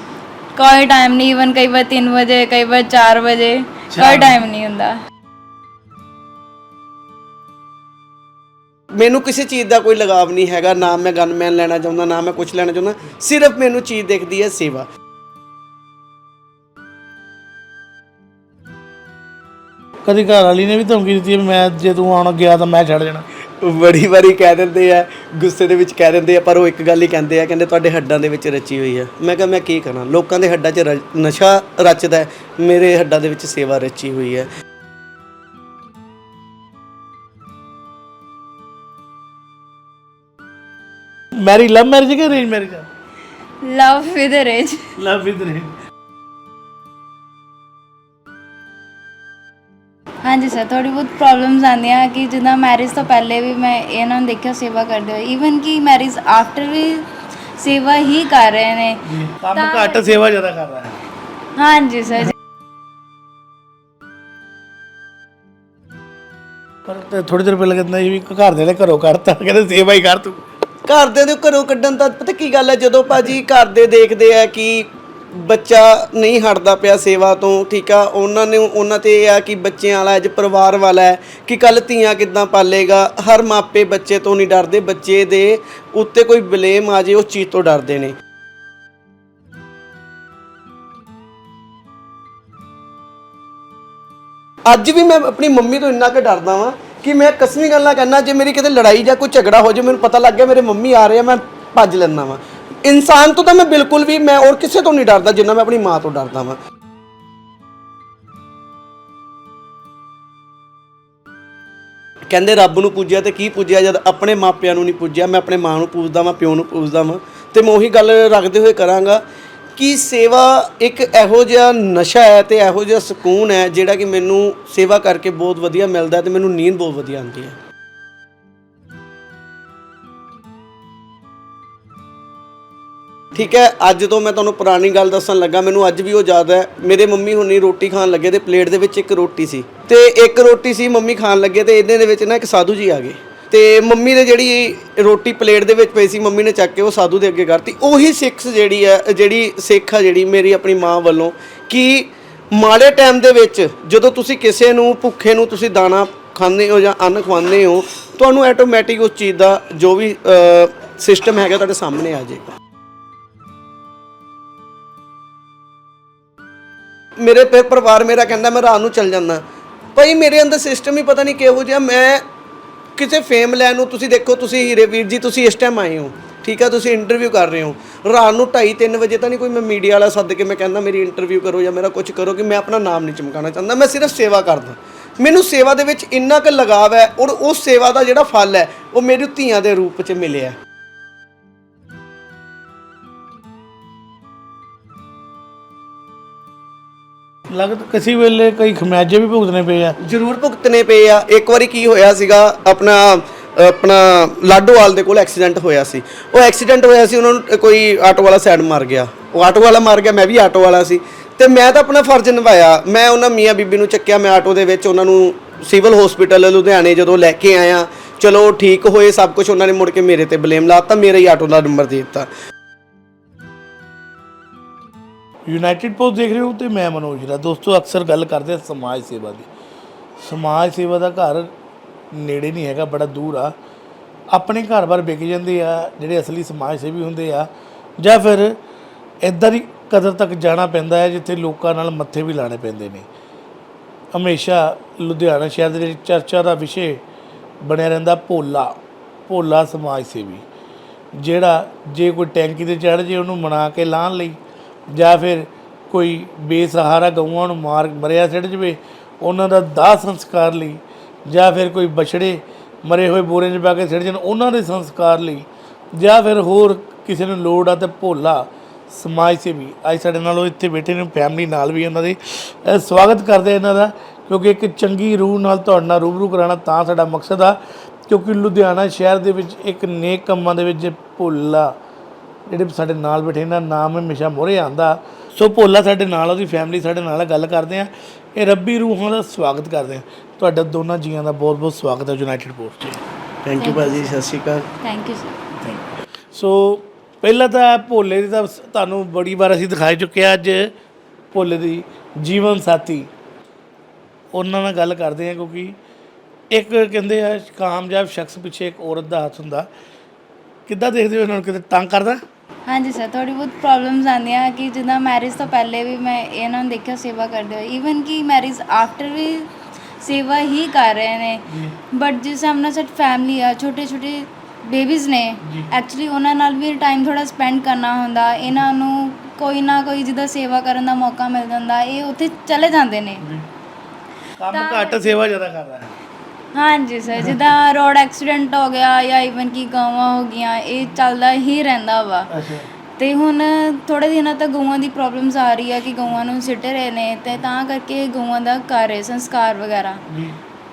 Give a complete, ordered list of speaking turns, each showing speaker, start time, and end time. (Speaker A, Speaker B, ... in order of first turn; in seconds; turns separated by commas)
Speaker A: 0.6-5.0, Speaker B: 3.9-4.4, Speaker C: 9.0-14.9, Speaker B: 20.1-23.2, Speaker C: 23.6-34.5, Speaker B: 41.4-42.9, Speaker A: 43.6-44.8, Speaker B: 45.0-45.7, Speaker A: 50.2-59.0, Speaker B: 59.1-61.0, Speaker A: 59.5-60.2, Speaker A: 61.6-62.3, Speaker B: 66.9-70.4, Speaker C: 70.9-88.1, Speaker C: 94.7-106.6, Speaker C: 112.3-119.2, Speaker C: 119.8-127.6, Speaker C: 133.3-162.5, Speaker C: 167.2-169.4, Speaker C: 170.0-172.2, Speaker C: 173.0-190.6, Speaker B: 197.5-200.0, Speaker C: 200.0-222.3, Speaker B: 225.5-229.5, Speaker B: 230.2-231.5, Speaker B: 232.1-233.5, Speaker B: 234.3-238.5, Speaker B: 239.2-243.1, Speaker B: 244.1-247.0, Speaker B: 247.6-248.7, Speaker B: 249.3-250.4, Speaker B: 251.2-254.4, Speaker B: 254.9-277.6, Speaker B: 278.1-281.7, Speaker B: 282.5-293.0, Speaker C: 293.4-294.7, Speaker A: 293.6-294.2, Speaker A: 294.8-295.4, Speaker B: 295.6-300.7, Speaker B: 301.3-303.1, Speaker B: 304.3-305.8, Speaker B: 306.5-309.6, Speaker B: 310.7-312.2, Speaker A: 312.7-333.2, Speaker B: 321.5-321.7, Speaker B: 325.4-325.7, Speaker B: 334.4-335.9, Speaker A: 334.5-335.1, Speaker A: 336.5-342.3, Speaker B: 342.3-342.6, Speaker A: 343.0-350.0, Speaker B: 350.1-350.4